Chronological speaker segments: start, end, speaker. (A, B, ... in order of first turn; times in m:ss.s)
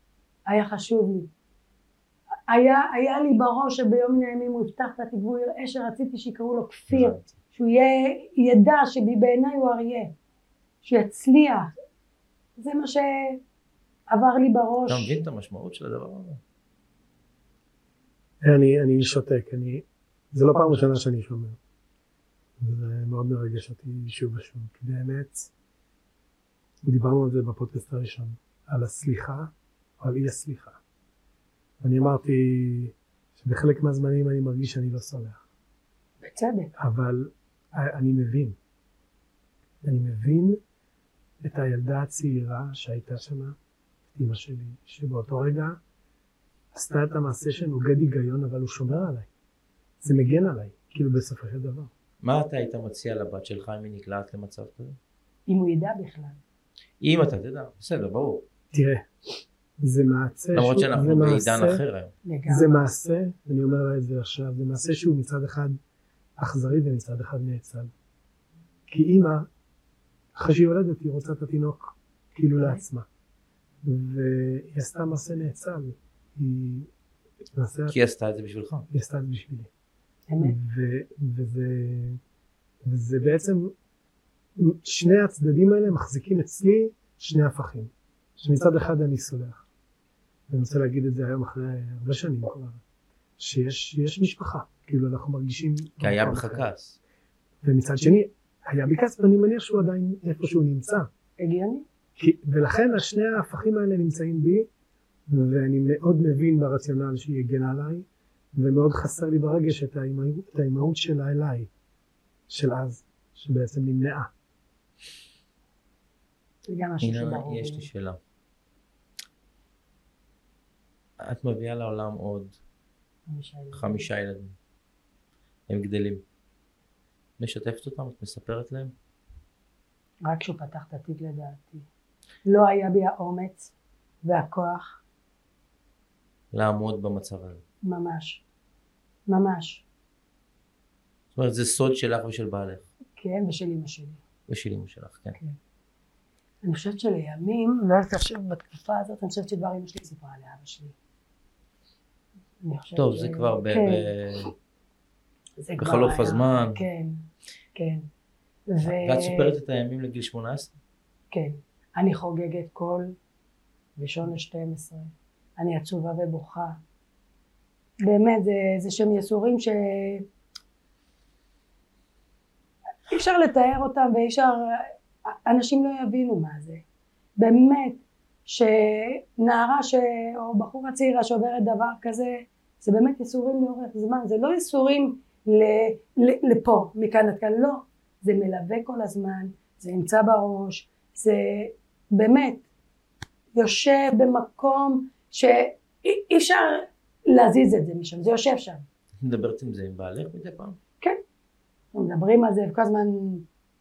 0:00.5-0:01.3 A
0:02.5-0:10.1 A
0:06.9-0:07.3 B
0:10.8-0:11.7 A
0:12.6-0:13.4 A
0:14.1-0:15.2 A
0:14.9-0:16.4 B
0:18.4-0:21.6 C
0:22.6-0:25.5 C
0:26.8-0:30.8 C
0:31.8-0:35.4 C
0:36.2-0:36.7 A
0:36.8-0:38.6 C
0:39.8-0:40.6 C
0:41.4-0:43.6 C
0:44.1-0:45.8 C
0:46.7-0:49.3 C
0:50.0-0:51.9 C
0:52.2-0:55.0 B
0:55.5-0:56.4 A
0:57.0-0:58.4 B
0:58.7-0:59.1 C
0:59.8-1:01.8 C
1:00.5-1:02.1 B
1:02.2-1:02.7 A
1:02.5-1:05.8 C
1:06.4-1:07.9 C
1:08.9-1:09.5 C
1:10.3-1:13.0 C
1:13.8-1:16.9 C
1:17.5-1:17.9 C
1:17.9-1:18.9 B
1:18.9-1:19.7 C
1:20.3-1:20.6 A
1:20.4-1:22.2 C
1:22.8-1:23.7 C
1:24.6-1:29.6 C
1:30.5-1:32.8 C
1:33.4-1:36.6 C
1:36.0-1:37.0 B
1:37.6-1:41.1 C
1:41.4-1:41.8 A
1:42.2-1:44.7 C
1:45.3-1:51.7 C
1:52.5-1:54.3 C
1:56.7-1:57.9 A
1:57.0-1:58.2 B
2:01.2-2:02.6 B
2:03.3-2:04.1 A
2:03.7-2:04.5 B
2:05.7-2:06.2 B
2:07.4-2:08.9 B
2:10.2-2:11.8 A
2:12.4-2:13.7 A
2:14.2-2:15.0 A
2:16.5-2:17.6 B
2:17.8-2:18.4 A
2:19.3-2:19.8 A
2:21.3-2:22.8 B
2:23.2-2:24.2 A
2:24.5-2:25.4 B
2:26.6-2:30.9 A
2:32.6-2:34.1 A
2:32.9-2:34.5 B
2:35.6-2:38.0 A
2:35.8-2:36.8 B
2:38.7-2:39.5 A
2:38.8-2:40.8 B
2:41.3-2:43.1 A
2:44.0-2:46.8 A
2:48.0-2:50.2 A
2:53.1-2:56.8 A
2:57.4-3:12.6 A
3:13.6-3:18.8 A
3:19.2-3:20.8 B
3:21.9-3:23.5 A